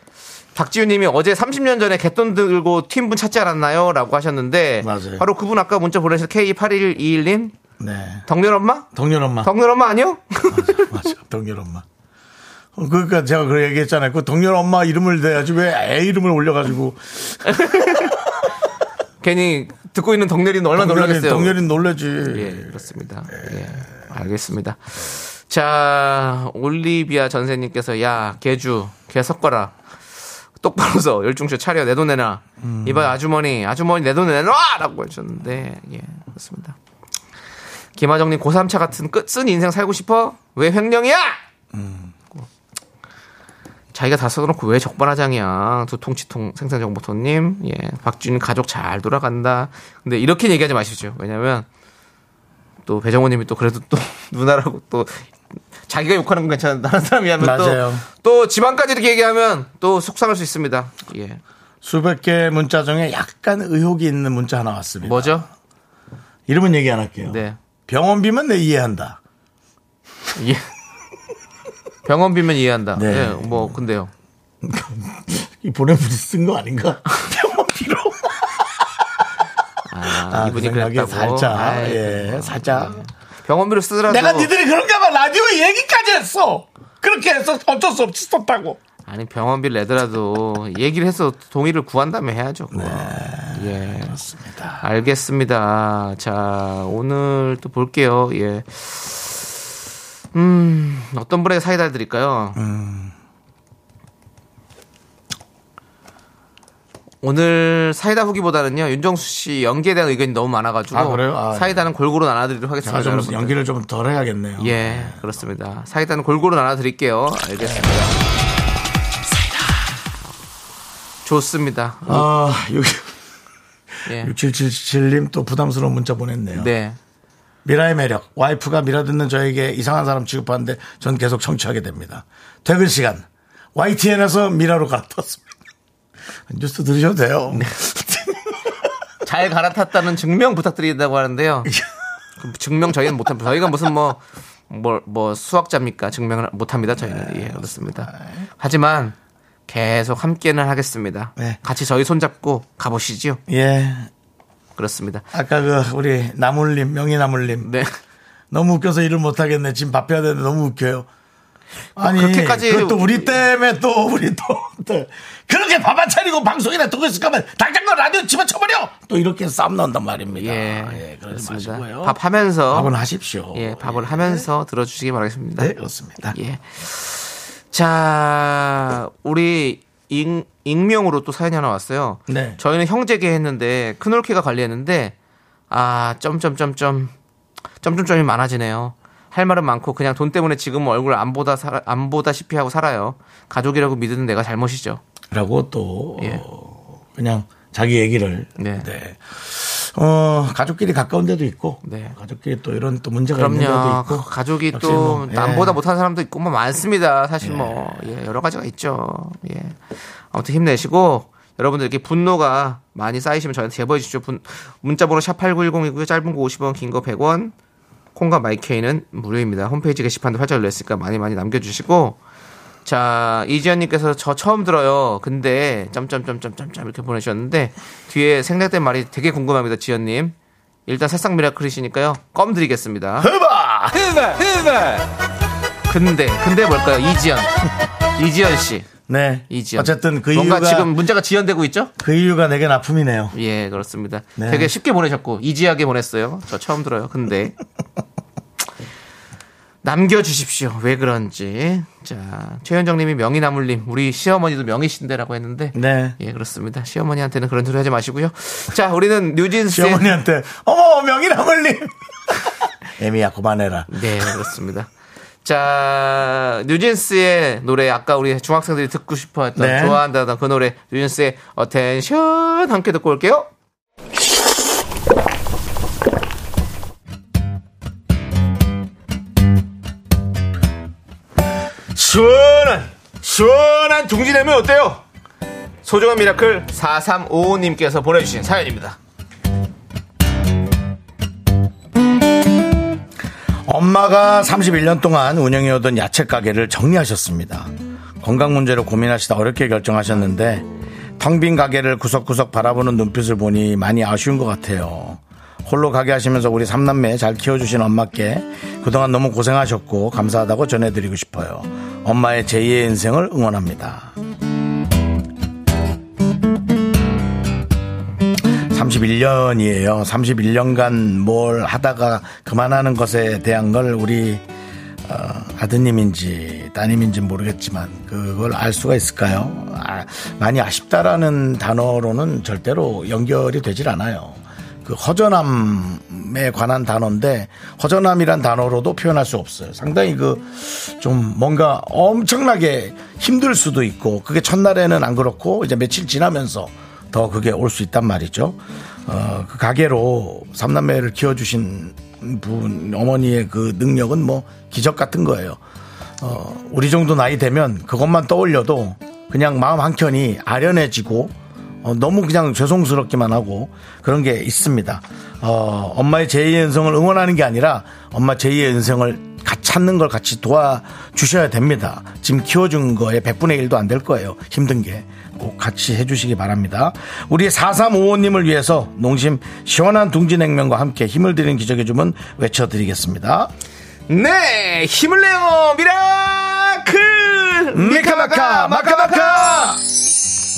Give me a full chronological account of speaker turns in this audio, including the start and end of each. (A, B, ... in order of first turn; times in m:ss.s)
0:00.6-0:07.5 A
0:04.8-0:05.2 B
0:07.8-0:08.2 B
0:08.3-0:08.9 A
0:08.9-0:09.5 B
0:09.4-0:10.9 A
0:10.5-0:11.8 B
0:12.8-0:18.1 B
0:17.5-0:18.2 A
0:19.2-0:21.6 A
0:20.8-0:22.8 B
0:22.3-0:29.8 A
0:30.6-0:36.8 A
0:32.6-0:33.2 B
0:38.0-0:41.4 A
0:41.7-0:42.1 B
0:43.9-0:51.7 A
0:52.9-0:55.3 A
0:55.9-1:01.4 A
0:57.4-0:58.0 B
1:01.8-1:05.4 B
1:05.0-1:05.5 A
1:06.5-1:09.2 B
1:07.2-1:07.6 A
1:10.4-1:10.7 A
1:12.1-1:14.1 A
1:13.0-1:13.8 B
1:14.6-1:18.8 B
1:19.9-1:24.5 A
1:20.2-1:23.0 B
1:24.1-1:28.8 B
1:29.1-1:34.2 A
1:32.7-1:34.8 B
1:34.8-1:39.5 A
1:40.3-1:42.6 A
1:42.6-1:43.1 B
1:47.2-1:53.6 A
1:50.9-1:51.8 B
1:52.8-1:55.2 B
1:54.6-1:58.2 A
2:01.2-2:02.3 A
2:02.1-2:03.1 B
2:04.1-2:04.3 A
2:04.1-2:06.7 B
2:06.6-2:07.0 A
2:07.6-2:15.4 B
2:16.5-2:18.7 B
2:19.2-2:21.7 A
2:22.4-2:29.2 A
2:27.0-2:28.5 B
2:29.7-2:33.4 A
2:33.5-2:34.1 B
2:34.8-2:35.2 A
2:35.3-2:37.7 B
2:37.6-2:37.9 A
2:38.5-2:41.1 B
2:42.0-2:52.2 B
2:42.0-2:43.4 A
2:50.3-2:52.9 A
2:52.7-2:54.5 B
2:53.5-2:55.7 A
2:55.6-2:56.4 B
2:56.3-3:05.2 A
3:02.3-3:02.6 B
3:05.7-3:07.1 A
3:07.8-3:15.0 A
3:15.3-3:25.8 B
3:16.2-3:16.4 A
3:18.6-3:18.9 A
3:21.8-3:22.2 A
3:23.4-3:29.8 A
3:27.4-3:27.9 B
3:30.3-3:37.5 A
3:38.2-3:42.2 A
3:42.8-3:50.4 A
3:50.9-3:53.3 A
3:53.2-3:54.1 B
3:54.0-3:55.0 A
3:55.9-3:57.5 A
3:58.2-3:58.9 A
3:59.1-4:00.9 B
3:59.5-4:01.9 A
4:02.0-4:03.4 B
4:03.3-4:07.6 A
4:04.4-4:04.7 B
4:09.8-4:20.1 A
4:15.7-4:16.2 B
4:19.7-4:21.9 B
4:23.0-4:24.3 B
4:23.9-4:24.9 A
4:25.4-4:33.5 A
4:29.6-4:30.0 B
4:42.0-4:45.0 A
4:45.8-4:49.0 A
4:53.7-5:00.7 B
5:01.2-5:14.1 B
5:18.7-5:24.4 B
5:25.0-5:55.6 B
5:56.2-6:23.5 B
6:24.1-6:29.7 A
6:27.7-6:29.8 B